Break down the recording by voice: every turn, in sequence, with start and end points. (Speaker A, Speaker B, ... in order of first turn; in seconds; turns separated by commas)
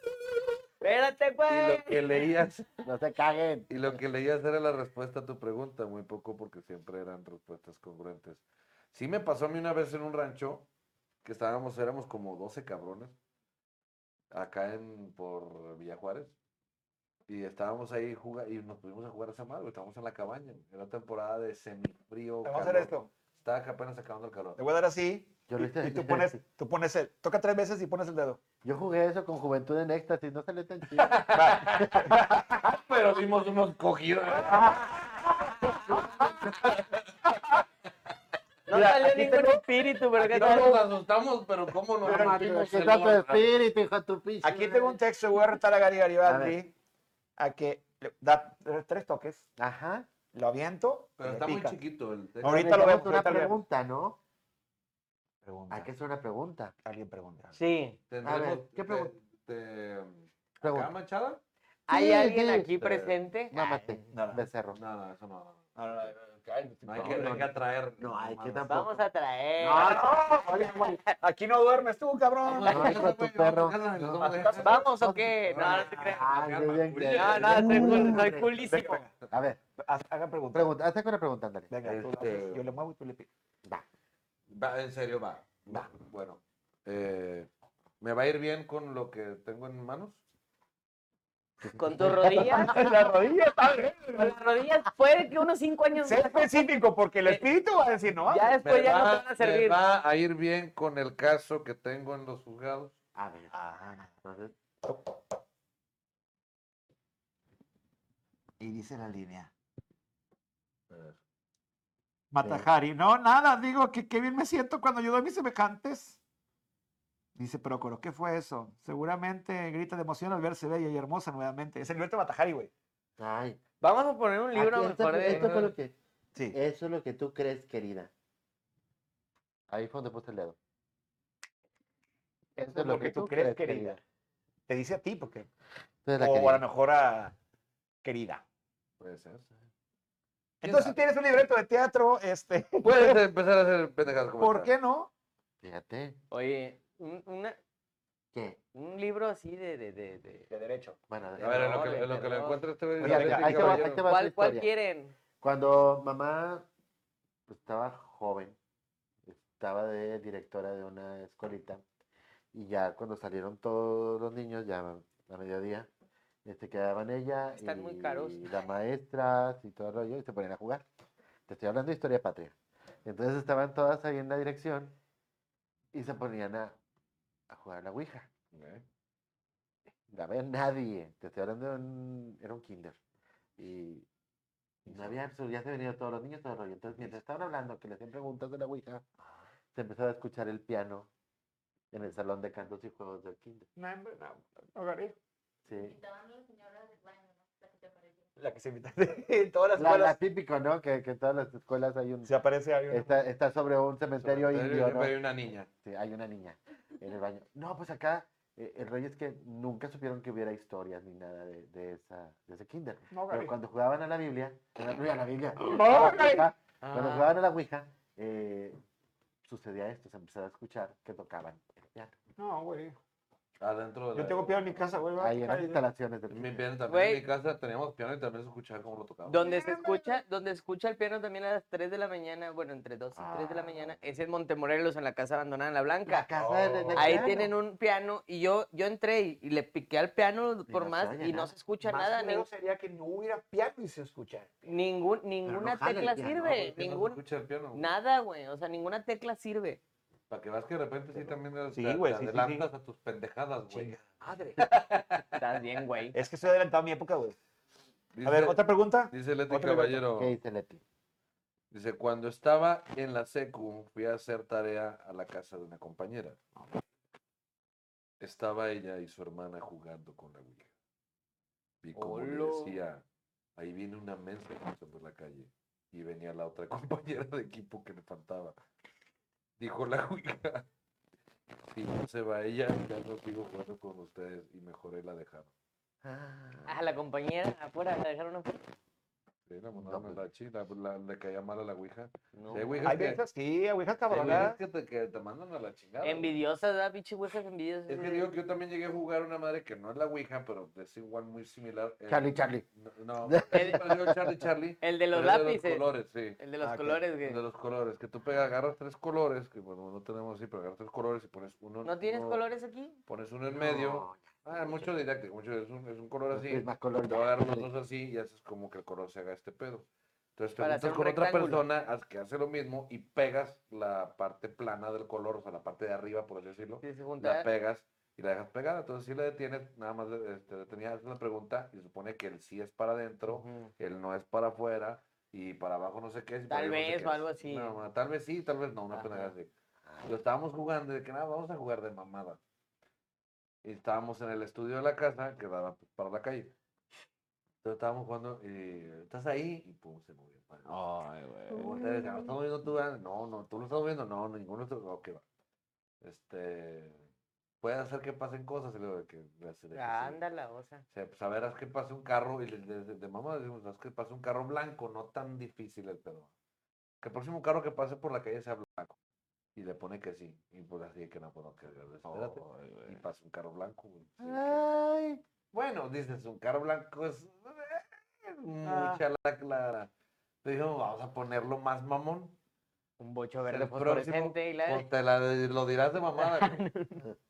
Speaker A: 0.8-2.1, Speaker B: 1.5-2.7, Speaker C: 2.8-4.0, Speaker B: 3.7-10.7, Speaker B: 11.2-13.2, Speaker B: 14.3-16.4, Speaker B: 17.3-24.6, Speaker D: 22.4-23.1, Speaker D: 24.6-28.4, Speaker C: 25.5-26.4, Speaker C: 28.6-32.4, Speaker B: 31.0-34.9, Speaker D: 31.4-32.2, Speaker D: 34.4-36.7, Speaker B: 35.6-36.9, Speaker A: 38.7-40.8, Speaker D: 38.7-39.6, Speaker B: 40.2-43.5, Speaker D: 40.3-40.7, Speaker C: 42.0-45.0, Speaker D: 42.0-42.4, Speaker D: 44.4-46.7, Speaker C: 46.2-46.6, Speaker D: 47.4-49.5, Speaker C: 49.6-50.1, Speaker D: 50.3-51.8, Speaker B: 51.2-52.9, Speaker D: 52.4-53.5, Speaker C: 52.4-54.2, Speaker D: 55.4-55.9, Speaker C: 55.7-56.7, Speaker D: 56.9-57.6, Speaker A: 57.5-58.0, Speaker B: 58.1-61.4, Speaker C: 58.2-59.1, Speaker C: 60.6-60.9, Speaker A: 61.9-64.0, Speaker C: 61.9-62.7, Speaker B: 62.8-63.1, Speaker C: 63.5-64.8, Speaker D: 64.1-64.5, Speaker B: 64.7-65.8, Speaker D: 65.8-67.5, Speaker B: 66.8-68.7, Speaker C: 67.0-67.4, Speaker C: 68.0-69.0, Speaker A: 68.7-71.0, Speaker C: 69.6-71.0, Speaker D: 69.8-73.0, Speaker B: 72.4-74.8, Speaker C: 72.7-73.8, Speaker D: 74.0-74.9, Speaker A: 74.6-76.4, Speaker C: 75.0-78.5, Speaker B: 75.5-78.3, Speaker D: 75.6-75.9, Speaker A: 77.1-79.0, Speaker D: 77.7-78.0, Speaker D: 78.7-79.1, Speaker C: 79.3-79.6, Speaker D: 79.8-80.7, Speaker C: 80.5-81.7, Speaker D: 81.7-83.3, Speaker B: 81.8-82.7, Speaker B: 84.5-87.5, Speaker B: 88.0-90.2, Speaker C: 91.6-92.9, Speaker A: 91.7-92.8, Speaker D: 92.5-94.4, Speaker A: 94.1-96.6, Speaker D: 96.0-98.6, Speaker A: 98.2-99.8, Speaker B: 98.6-102.9, Speaker C: 103.2-103.5, Speaker D: 103.5-104.1, Speaker C: 104.2-104.5, Speaker D: 108.6-109.5, Speaker B: 110.9-111.2, Speaker D: 112.3-116.2, Speaker C: 112.4-112.7, Speaker D: 117.4-122.7, Speaker C: 123.2-123.6, Speaker A: 123.8-125.7, Speaker C: 124.5-126.0, Speaker C: 126.5-128.1, Speaker C: 129.7-130.6, Speaker C: 132.6-134.0, Speaker D: 132.6-134.0, Speaker D: 134.7-135.5, Speaker C: 136.1-136.6, Speaker D: 136.2-137.3, Speaker D: 138.0-138.4, Speaker B: 139.0-139.5, Speaker B: 140.6-141.0, Speaker D: 140.6-143.2, Speaker B: 142.8-144.7, Speaker D: 144.4-145.1, Speaker C: 145.6-146.2, Speaker A: 146.3-147.6, Speaker C: 148.3-148.6, Speaker A: 148.7-150.5, Speaker D: 150.5-151.0, Speaker C: 151.1-151.9, Speaker B: 151.4-154.0, Speaker A: 151.4-152.6, Speaker D: 153.0-153.9, Speaker C: 153.0-154.7, Speaker A: 154.0-155.1, Speaker C: 155.4-156.7, Speaker C: 157.5-158.6, Speaker C: 159.3-161.8, Speaker C: 162.5-165.9, Speaker C: 166.4-170.8, Speaker A: 167.6-168.5, Speaker C: 171.5-175.0, Speaker C: 175.9-176.8, Speaker C: 177.5-178.3, Speaker B: 178.5-178.8, Speaker C: 180.1-183.0, Speaker C: 183.6-184.1, Speaker C: 184.9-189.1, Speaker C: 189.8-191.1, Speaker C: 191.9-193.7, Speaker D: 193.8-195.2, Speaker C: 195.7-196.0, Speaker E: 195.7-198.3, Speaker D: 198.4-200.2, Speaker C: 199.8-202.3, Speaker D: 202.3-203.2, Speaker C: 202.9-205.2, Speaker B: 204.2-205.7, Speaker C: 205.8-218.8, Speaker D: 213.1-213.5, Speaker D: 215.6-216.5, Speaker A: 216.8-217.3, Speaker C: 219.4-222.1, Speaker D: 222.4-223.0, Speaker B: 223.6-224.8, Speaker D: 224.1-225.8, Speaker C: 225.2-226.7, Speaker B: 226.3-229.5, Speaker A: 226.9-227.2, Speaker A: 229.3-236.3, Speaker D: 229.4-230.2, Speaker C: 233.2-234.0, Speaker C: 236.1-237.5, Speaker D: 236.4-237.4, Speaker A: 237.0-242.5, Speaker C: 240.7-241.5, Speaker D: 241.8-244.7, Speaker A: 244.7-247.2, Speaker C: 245.5-246.5, Speaker B: 246.3-247.9, Speaker A: 247.8-249.8, Speaker B: 250.3-254.0, Speaker D: 251.7-252.7, Speaker D: 253.7-254.7, Speaker B: 254.6-255.4, Speaker A: 255.4-256.2, Speaker D: 256.1-257.4, Speaker B: 258.1-260.4, Speaker D: 258.2-260.0, Speaker C: 260.2-260.8, Speaker B: 261.7-266.4, Speaker B: 268.2-270.7, Speaker B: 271.8-273.0, Speaker A: 271.9-272.8, Speaker B: 273.6-278.6, Speaker B: 279.6-280.7, Speaker B: 281.6-285.5, Speaker C: 286.0-286.8, Speaker A: 286.7-288.7, Speaker B: 289.5-293.2, Speaker C: 289.8-290.2, Speaker A: 292.3-292.8, Speaker D: 292.9-294.6, Speaker B: 294.1-296.4, Speaker A: 296.0-298.3, Speaker B: 297.9-306.4, Speaker C: 302.1-302.6, Speaker C: 303.2-304.3, Speaker A: 303.5-303.8, Speaker A: 304.8-305.8, Speaker A: 306.4-307.4, Speaker D: 306.6-307.0, Speaker B: 307.2-312.4, Speaker A: 311.8-313.0, Speaker B: 313.1-339.5, Speaker C: 313.5-314.9, Speaker C: 316.3-317.7, Speaker A: 320.6-321.6, Speaker A: 326.8-327.5, Speaker A: 333.3-333.7, Speaker A: 336.5-337.8, Speaker A: 338.9-339.3, Speaker B: 340.0-342.4, Speaker B: 343.6-346.5, Speaker B: 347.6-355.2, Speaker D: 350.7-351.6, Speaker C: 351.6-352.3, Speaker B: 356.0-357.0, Speaker B: 357.6-360.2, Speaker A: 359.7-360.8, Speaker B: 360.9-366.3, Speaker B: 367.0-369.0, Speaker B: 369.6-374.6, Speaker D: 372.1-373.0, Speaker C: 374.2-375.2, Speaker B: 375.5-379.9, Speaker D: 378.6-379.0, Speaker B: 380.4-382.4, Speaker A: 383.0-384.9, Speaker B: 383.5-386.6, Speaker A: 386.2-387.1